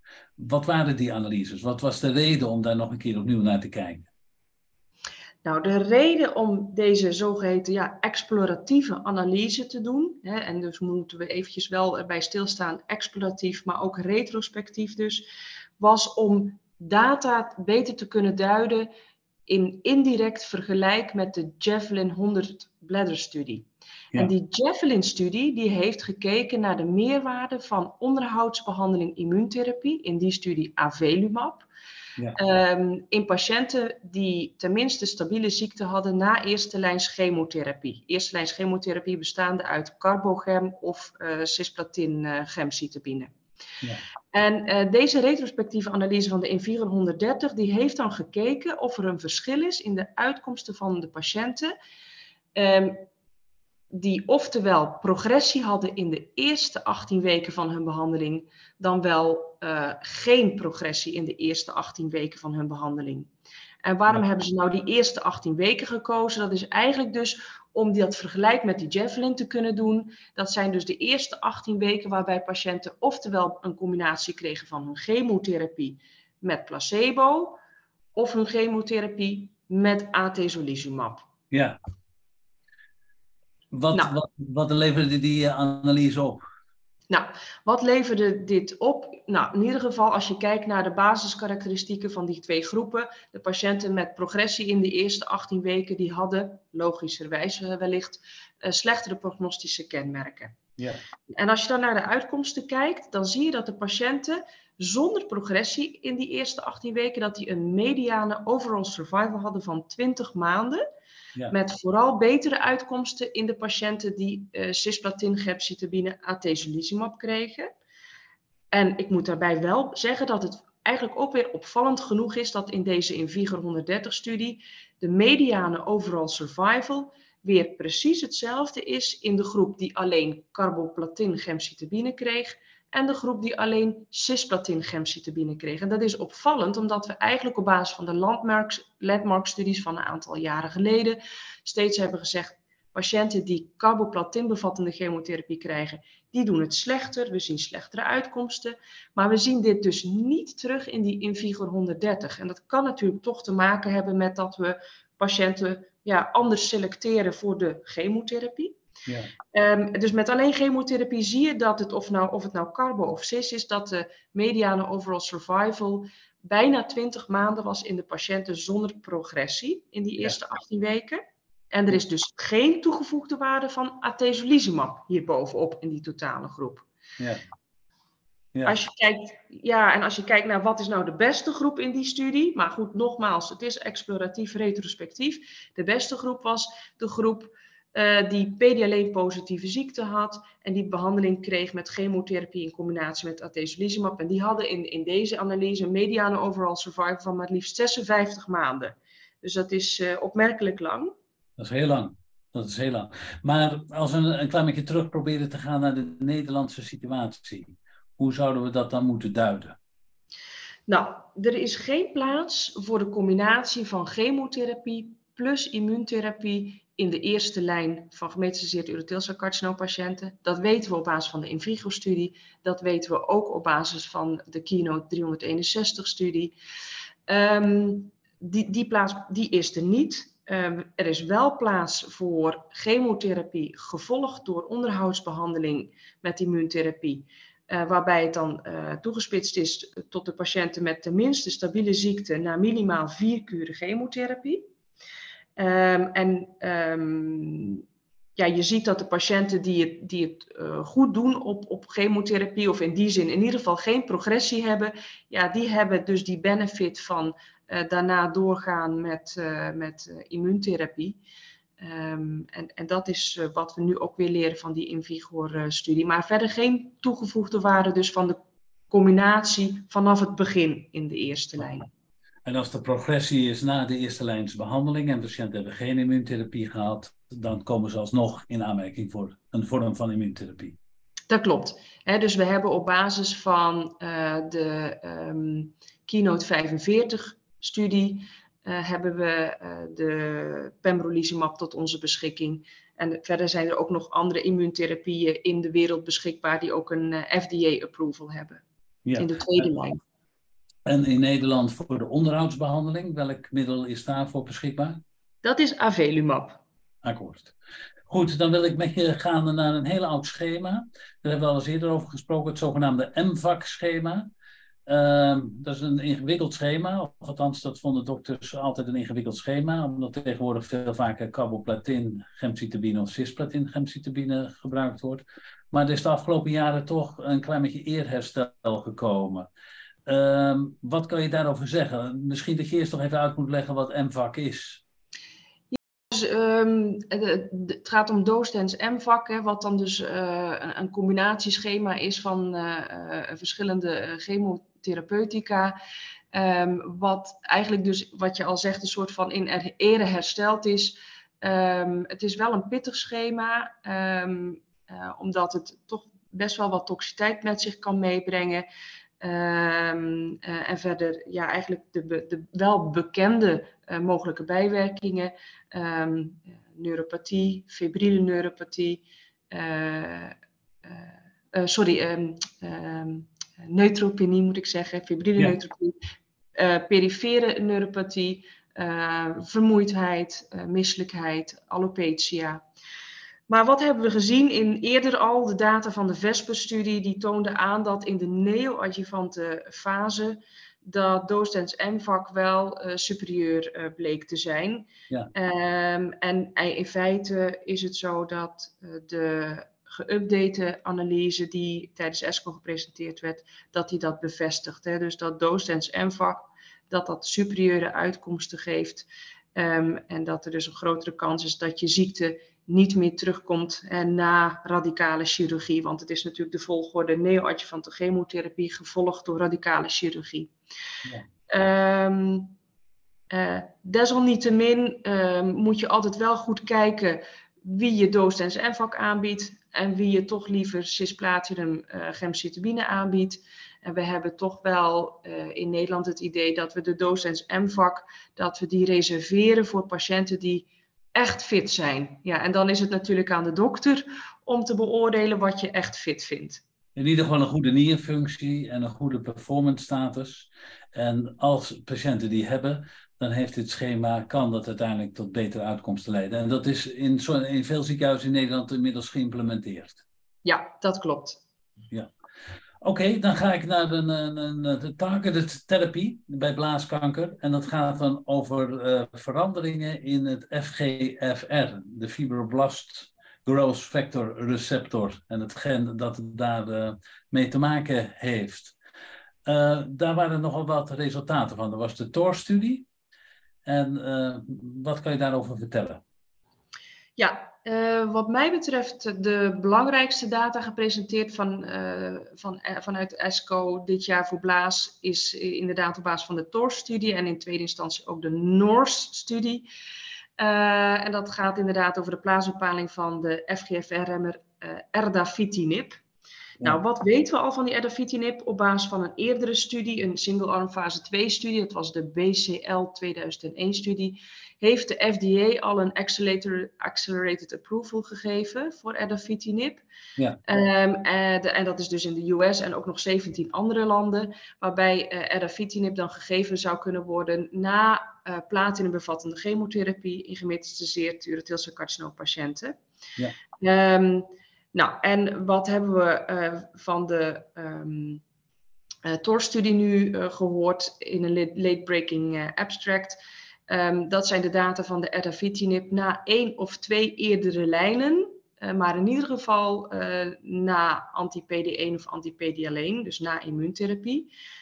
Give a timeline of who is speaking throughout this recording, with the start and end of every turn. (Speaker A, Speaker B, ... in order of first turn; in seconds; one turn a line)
Speaker A: 0.4-4.1
Speaker B: 5.4-15.3
Speaker B: 15.8-18.9
Speaker B: 19.5-31.6
Speaker B: 32.3-43.3
Speaker B: 44.3-51.7
Speaker B: 52.5-53.0
Speaker B: 53.9-63.3
Speaker B: 63.8-77.6
Speaker B: 78.1-81.2
Speaker A: 81.5-81.8
Speaker A: 83.7-86.4
Speaker B: 87.1-100.6
Speaker B: 101.3-110.8
Speaker B: 111.5-117.7
Speaker B: 118.7-158.8
Speaker A: 159.1-159.3
Speaker B: 159.5-176.8
Speaker B: 178.7-201.1
Speaker A: 201.6-209.8
Speaker B: 210.9-226.5
Speaker B: 227.3-244.6
Speaker B: 245.6-247.8
Speaker B: 248.3-261.2
Speaker B: 261.8-268.4
Speaker B: 268.9-271.9
Speaker A: 272.4-280.8
Speaker B: 281.3-298.6
Speaker A: 299.0-299.6
Speaker B: 299.2-300.0
Speaker A: 300.9-305.0
Speaker B: 305.4-306.6
Speaker A: 307.0-307.5
Speaker A: 308.1-314.3
Speaker A: 314.9-329.5
Speaker A: 330.1-334.8
Speaker B: 335.7-345.8
Speaker B: 346.3-358.6
Speaker B: 359.2-376.0
Speaker B: 376.6-382.6
Speaker B: 383.5-420.5
Speaker B: 421.5-422.5
Speaker B: 423.3-446.6
Speaker A: 446.9-460.0
Speaker B: 460.4-461.4
Speaker A: 462.8-478.7
Speaker A: 479.4-482.9
Speaker A: 483.6-486.0
Speaker B: 487.2-499.7
Speaker B: 500.4-506.0
Speaker B: 506.6-519.8
Speaker B: 520.5-532.7
Speaker B: 533.6-538.2
Speaker B: 539.0-554.3